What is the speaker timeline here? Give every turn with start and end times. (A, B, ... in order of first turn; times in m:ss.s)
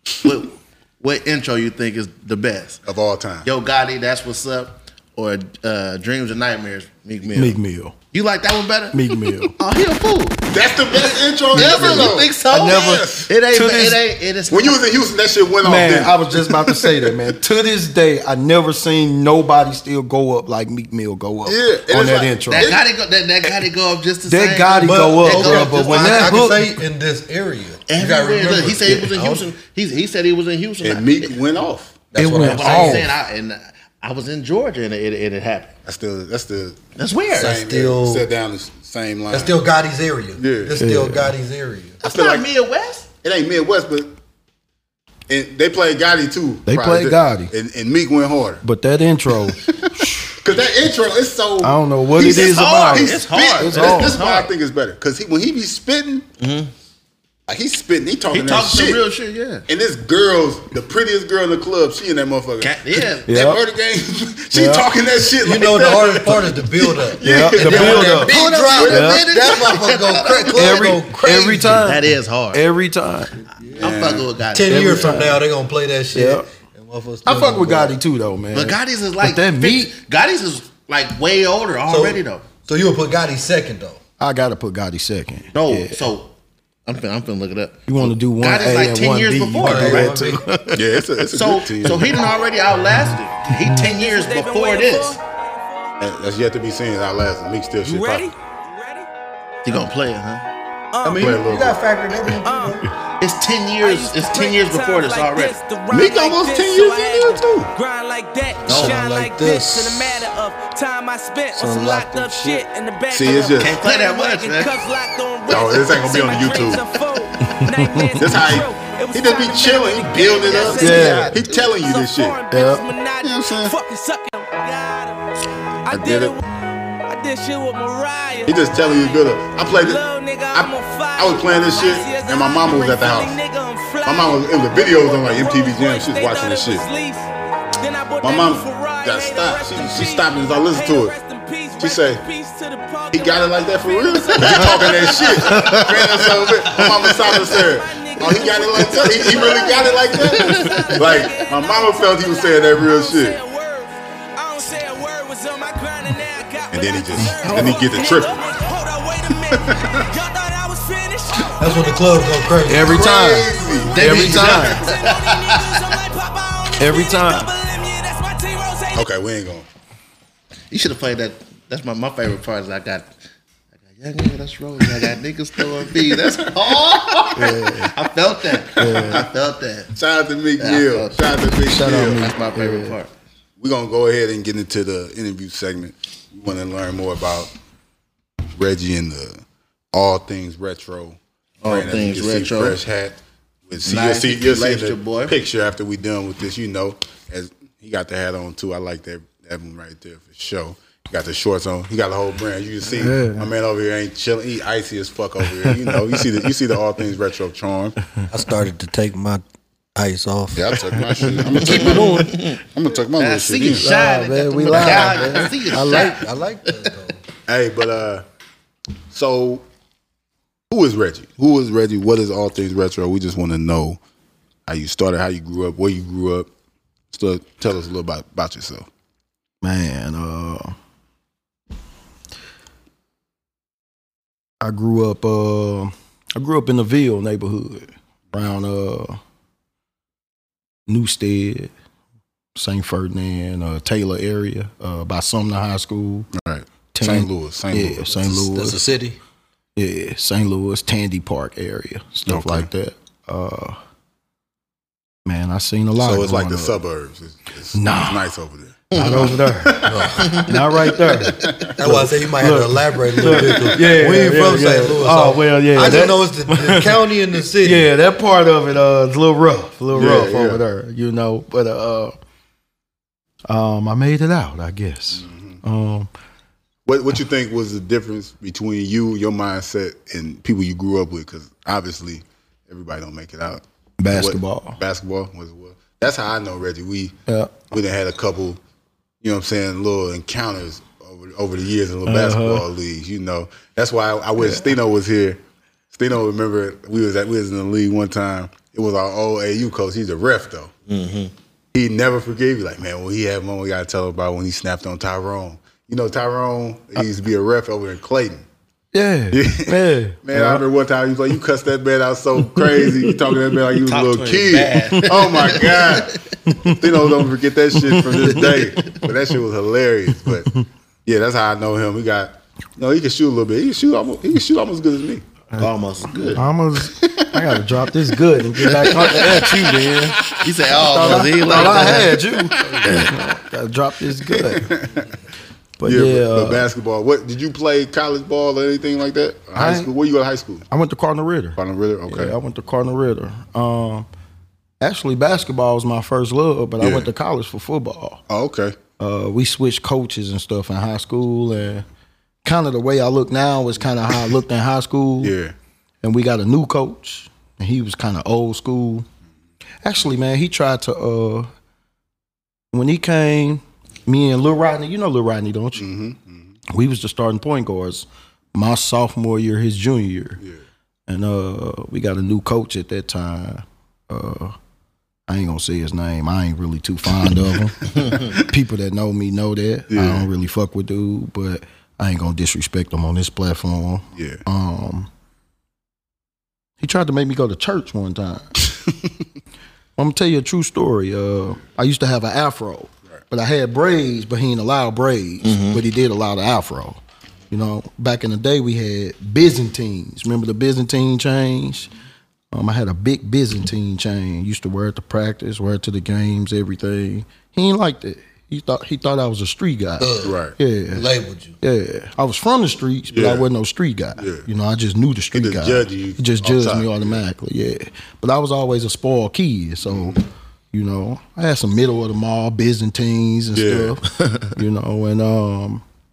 0:00.2-0:02.8 A
0:02.8-0:03.5 B
0:03.4-0:07.6 A
0:07.4-0:07.9 C
0:08.1-0:10.4 A
0:08.9-0:09.5 C
0:10.5-0:13.3 B
0:11.5-0:14.9 A
0:11.5-0:14.0 C
0:14.5-0:17.3 B
0:15.6-0:22.7 C
0:21.4-0:22.8 B
0:22.5-0:26.4 A
0:24.3-0:26.8 C
0:24.8-0:29.4 D
0:27.9-0:31.4 A
0:28.8-0:29.1 C
0:30.8-0:32.1 B
0:32.1-0:33.1 D
0:32.2-0:33.1 C
0:32.2-0:35.7 A
0:35.8-0:36.8 B
0:37.0-0:37.6 A
0:37.4-0:39.6 B
0:37.4-0:38.2 D
0:39.3-0:42.0 D
0:40.4-0:40.8 B
0:40.8-0:41.3 C
0:42.0-0:43.1 A
0:42.0-0:42.4 B
0:43.2-0:44.1 B
0:45.3-0:48.6 B
0:46.6-0:47.5 C
0:48.6-0:50.4 C
0:49.6-0:56.3 B
0:51.6-0:54.2 C
0:52.2-0:54.5 A
0:56.4-0:56.7 A
0:57.5-0:59.0 B
0:58.3-0:59.7 A
0:59.7-1:08.9 B
1:02.6-1:03.3 A
1:03.3-1:03.6 C
1:04.5-1:04.9 C
1:05.4-1:11.9 D
1:07.2-1:09.3 C
1:07.6-1:11.1 A
1:10.5-1:13.3 C
1:11.7-1:12.6 A
1:13.8-1:14.3 B
1:13.8-1:15.2 A
1:14.5-1:18.0 D
1:14.7-1:15.4 C
1:16.1-1:16.5 C
1:17.2-1:19.9 C
1:18.5-1:22.5 A
1:21.9-1:24.0 D
1:24.2-1:26.0 C
1:25.5-1:26.3 A
1:26.8-1:30.4 A
1:27.9-1:30.7 C
1:29.6-1:30.6 D
1:30.7-1:32.2 B
1:31.3-1:35.2 A
1:33.8-1:36.0 E
1:36.0-1:38.3 B
1:37.8-1:39.1 E
1:39.6-1:40.4 A
1:40.9-1:41.4 E
1:41.0-1:42.9 D
1:41.2-1:41.8 B
1:42.4-1:42.8 E
1:43.2-1:45.6 A
1:43.8-2:05.2 E
1:45.9-1:47.7 B
1:48.6-1:50.2 D
1:51.6-1:52.6 D
1:53.1-1:53.7 B
1:53.6-1:54.7 A
1:55.5-1:56.8 B
1:57.4-1:58.1 C
1:58.2-2:02.4 B
2:00.4-2:01.7 A
2:00.8-2:01.3 C
2:02.5-2:02.8 C
2:03.2-2:03.7 B
2:05.8-2:06.4 E
2:05.9-2:06.4 B
2:07.0-2:25.8 E
2:08.5-2:13.4 B
2:14.0-2:16.8 B
2:18.2-2:21.1 B
2:21.8-2:22.2 B
2:23.1-2:33.4 B
2:24.4-2:27.4 A
2:27.3-2:49.1 E
2:28.4-2:31.4 A
2:36.7-2:38.4 B
2:37.5-2:37.7 C
2:39.4-2:40.0 B
2:41.6-2:43.0 D
2:42.6-2:44.9 C
2:42.8-2:44.5 B
2:43.9-2:46.0 A
2:46.8-2:47.5 C
2:48.9-2:49.7 B
2:50.7-2:53.1 A
2:53.9-2:59.9 A
2:55.9-2:57.5 B
2:57.3-2:57.9 C
2:58.8-2:59.2 C
2:58.8-2:59.3 B
2:59.9-3:02.2 B
3:00.6-3:03.1 A
3:01.7-3:03.0 C
3:03.6-3:07.5 B
3:08.5-3:28.0 B
3:11.6-3:12.8 A
3:13.8-3:15.4 A
3:23.0-3:23.5 C
3:25.6-3:26.0 C
3:28.3-3:29.4 D
3:30.0-3:30.9 D
3:30.5-3:33.9 B
3:31.2-3:32.3 C
3:31.6-3:32.6 A
3:33.2-3:36.9 A
3:33.8-3:36.2 C
3:34.7-3:37.2 D
3:37.5-3:38.2 B
3:39.1-3:39.6 B
3:40.7-3:44.0 B
3:44.6-3:46.5 B
3:47.1-3:48.9 B
3:49.6-3:50.7 C
3:54.6-3:59.2 C
4:00.9-4:01.7 C
4:02.5-4:06.3 C
4:06.3-4:08.1 B
4:06.9-4:08.8 C
4:08.1-4:09.2 D
4:09.8-4:13.8 C
4:12.3-4:12.7 B
4:15.2-4:16.8 C
4:16.0-4:20.4 B
4:17.7-4:18.3 C
4:18.9-4:19.4 A
4:18.9-4:27.0 C
4:19.8-4:20.4 D
4:20.2-4:21.5 A
4:21.4-4:21.7 B
4:21.8-4:27.9 D
4:27.5-4:32.1 C
4:29.9-4:30.6 B
4:33.5-4:36.1 C
4:35.2-4:35.6 B
4:36.8-4:47.2 B
4:44.0-4:44.8 C
4:47.3-4:47.5 C
4:47.7-4:48.6 B
4:49.2-4:55.4 B
4:52.0-4:52.6 C
4:55.9-5:00.7 B
5:00.9-5:01.3 A
5:01.7-5:08.4 B
5:08.9-5:10.6 C
5:09.3-5:20.5 B
5:12.6-5:13.1 C
5:13.8-5:16.3 A
5:16.4-5:16.8 C
5:17.9-5:18.5 C
5:18.3-5:19.0 A
5:21.0-5:25.2 B
5:25.6-5:26.4 A
5:26.3-5:30.2 C
5:27.0-5:27.6 B
5:28.6-5:30.5 B
5:28.9-5:29.3 A
5:30.3-5:32.2 A
5:30.8-5:34.7 C
5:31.5-5:33.0 B
5:32.8-5:33.1 A
5:34.2-5:35.1 B
5:35.8-5:36.6 C
5:35.8-5:40.6 B
5:39.5-5:39.9 C
5:40.7-5:44.1 C
5:41.6-5:42.4 B
5:44.8-5:48.2 C
5:46.8-5:47.1 B
5:48.3-5:48.8 B
5:49.0-5:51.8 C
5:52.4-5:55.3 C
5:55.2-5:55.5 B
5:56.0-5:59.0 C
5:59.8-6:01.5 C
6:02.7-6:05.8 C
6:05.7-6:06.5 B
6:06.7-6:10.4 C
6:11.1-6:14.6 C
6:15.3-6:25.1 C
6:17.2-6:18.4 B
6:19.9-6:20.3 B
6:24.1-6:24.4 B
6:26.8-6:28.5 C
6:28.8-6:29.1 B
6:30.0-6:37.0 C
6:35.4-6:35.8 A
6:37.5-6:41.9 C
6:42.5-6:51.1 C
6:50.0-6:50.4 D
6:50.2-6:50.6 B
6:50.9-6:51.6 D
6:51.6-7:05.8 C
6:53.1-6:53.5 B
6:54.2-6:54.4 B
6:55.3-6:57.2 B
6:59.8-7:00.2 B
7:03.5-7:04.0 B